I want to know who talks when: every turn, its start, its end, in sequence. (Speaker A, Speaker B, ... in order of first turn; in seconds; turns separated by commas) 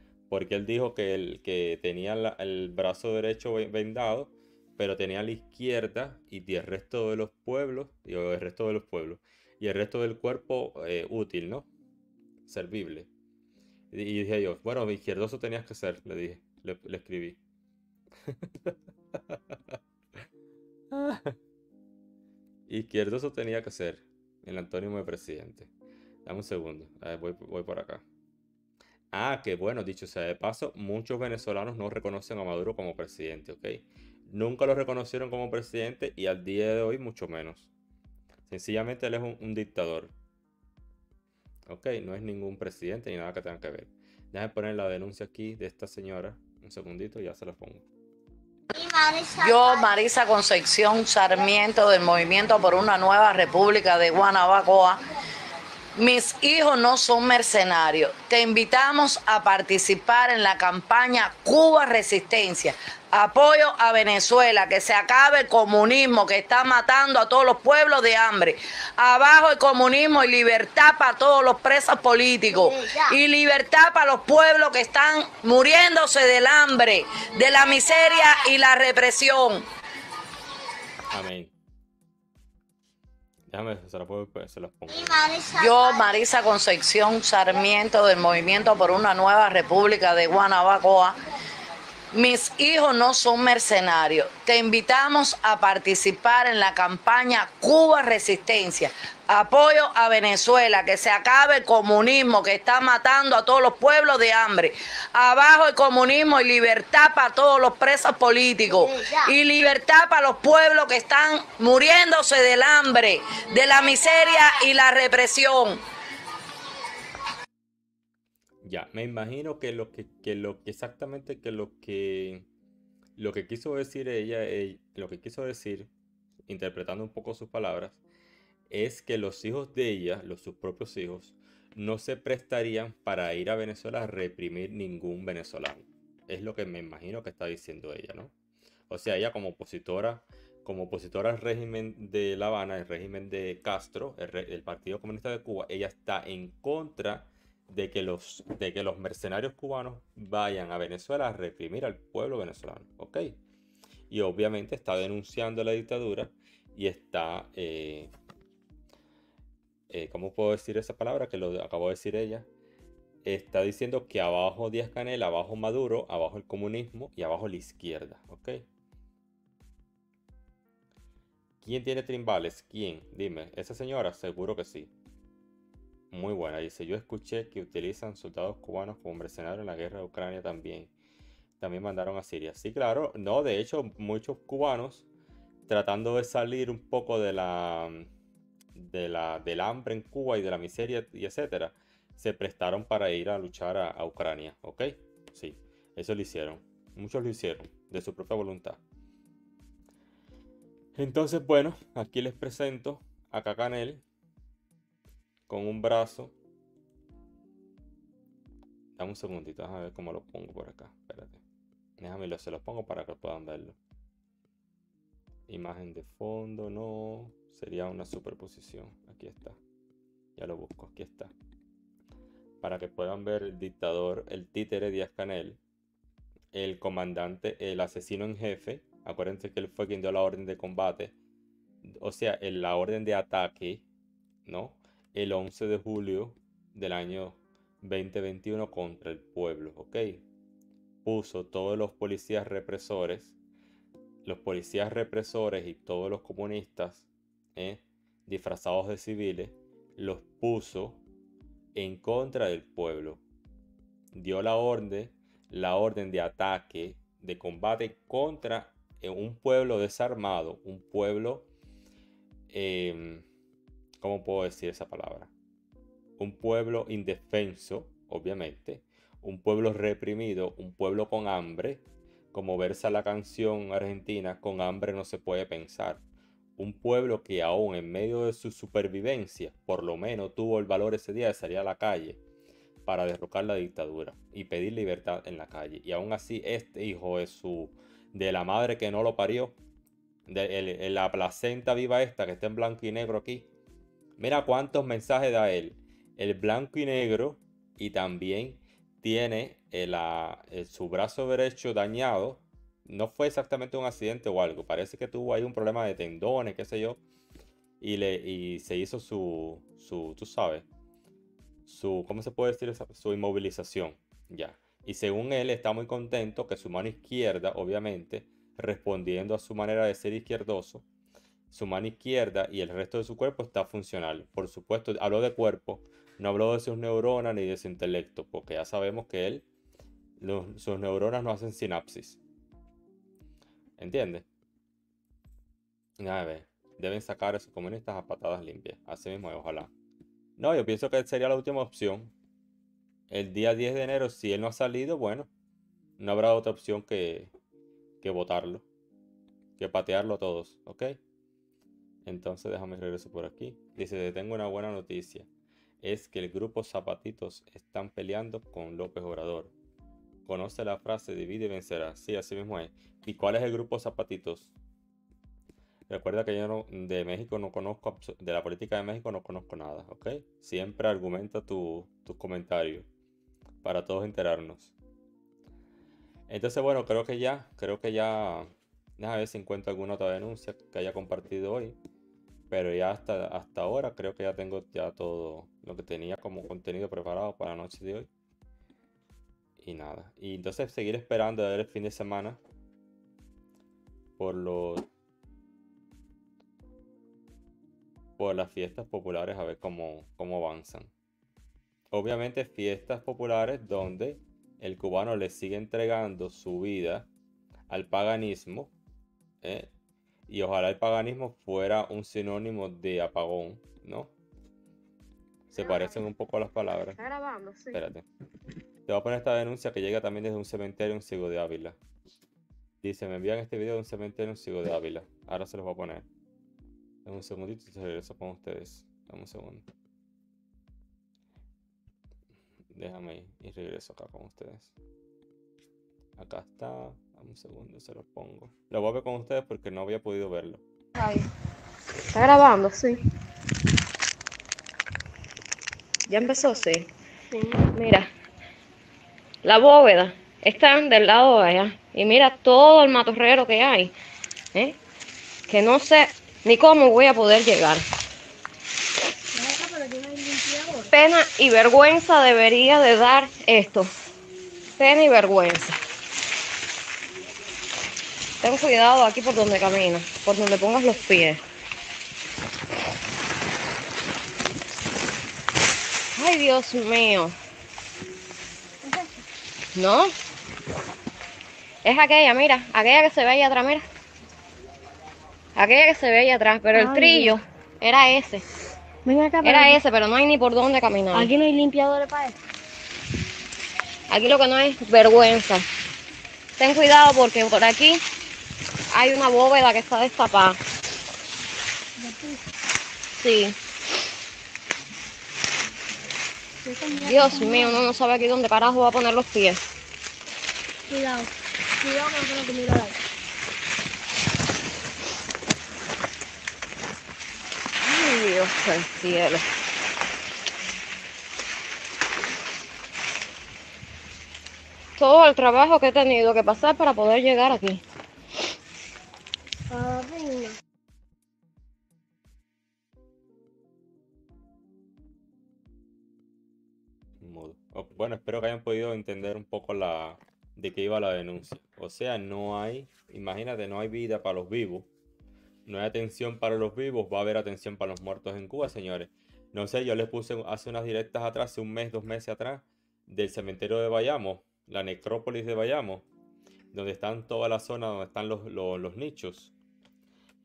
Speaker A: 0.3-11.7, Speaker A: 12.5-13.1, Speaker A: 13.9-17.4, Speaker A: 18.3-19.8, Speaker A: 20.9-21.4, Speaker A: 22.7-25.7, Speaker A: 26.3-28.0, Speaker A: 29.1-37.7, Speaker A: 38.5-40.1, Speaker A: 41.7-47.8, Speaker B: 48.7-55.0, Speaker B: 56.0-79.7, Speaker A: 81.1-81.5, Speaker A: 83.5-85.4, Speaker B: 85.4-91.2, Speaker B: 92.1-115.8, Speaker A: 118.6-122.5, Speaker A: 123.2-125.9, Speaker A: 126.5-128.0, Speaker A: 128.7-138.3, Speaker A: 138.9-153.4, Speaker A: 154.1-158.1, Speaker A: 159.9-162.5, Speaker A: 163.2-168.6, Speaker A: 171.6-174.9, Speaker A: 176.1-180.9, Speaker A: 181.6-185.1, Speaker A: 185.7-188.1, Speaker A: 188.7-198.8, Speaker A: 200.9-204.0, Speaker A: 205.5-206.3, Speaker A: 209.0-211.4, Speaker A: 212.0-213.8, Speaker A: 215.5-219.6, Speaker A: 220.4-221.3, Speaker A: 222.6-225.6, Speaker A: 226.5-231.1, Speaker A: 231.8-233.8, Speaker A: 234.4-240.2, Speaker A: 241.1-243.4, Speaker A: 244.2-251.0, Speaker A: 251.7-253.2, Speaker A: 254.1-261.5, Speaker A: 262.5-263.3, Speaker A: 264.0-265.3, Speaker A: 266.2-276.0, Speaker A: 276.6-282.2, Speaker A: 282.9-289.6, Speaker A: 290.3-293.5, Speaker A: 294.2-307.0, Speaker A: 307.8-310.7, Speaker A: 311.7-320.8, Speaker A: 321.5-329.4, Speaker A: 330.2-332.2, Speaker A: 333.8-334.3, Speaker A: 336.0-339.7, Speaker A: 340.4-342.1, Speaker A: 343.1-345.3, Speaker A: 346.0-347.3, Speaker A: 348.0-348.6, Speaker A: 349.6-351.0, Speaker A: 352.1-355.3, Speaker A: 355.8-359.5, Speaker A: 360.3-364.5, Speaker A: 365.9-372.9, Speaker A: 373.6-374.7, Speaker A: 376.3-381.8, Speaker A: 382.5-388.1, Speaker A: 389.6-392.4, Speaker A: 394.2-394.9, Speaker A: 398.2-400.9, Speaker A: 401.9-407.1, Speaker A: 407.7-408.7, Speaker A: 409.4-409.7, Speaker A: 410.3-414.1, Speaker A: 415.5-417.0, Speaker C: 417.0-417.8, Speaker A: 417.7-418.1, Speaker A: 418.9-421.8, Speaker A: 422.8-426.1, Speaker A: 427.1-429.7, Speaker A: 432.7-434.7, Speaker A: 436.2-440.6, Speaker C: 440.9-441.3, Speaker C: 442.1-443.0, Speaker C: 446.1-446.9, Speaker D: 447.3-447.6, Speaker C: 447.6-448.1, Speaker C: 449.4-453.9, Speaker C: 455.5-457.9, Speaker D: 459.3-460.9, Speaker C: 460.9-463.9, Speaker C: 464.8-465.8, Speaker C: 468.4-471.4, Speaker C: 476.1-477.4, Speaker C: 479.7-480.1, Speaker C: 481.8-483.8, Speaker C: 485.6-488.4, Speaker D: 486.7-487.4, Speaker D: 489.1-489.8, Speaker C: 489.4-491.3, Speaker D: 491.1-492.4, Speaker C: 494.1-495.6, Speaker C: 496.6-498.0, Speaker C: 498.9-500.6, Speaker D: 502.0-502.4, Speaker C: 503.2-503.6, Speaker D: 506.6-507.8, Speaker C: 507.0-509.6, Speaker D: 510.9-513.0, Speaker C: 517.8-519.5, Speaker C: 525.0-527.8, Speaker D: 529.7-530.5, Speaker A: 537.2-544.9, Speaker A: 545.7-556.0, Speaker A: 556.7-559.5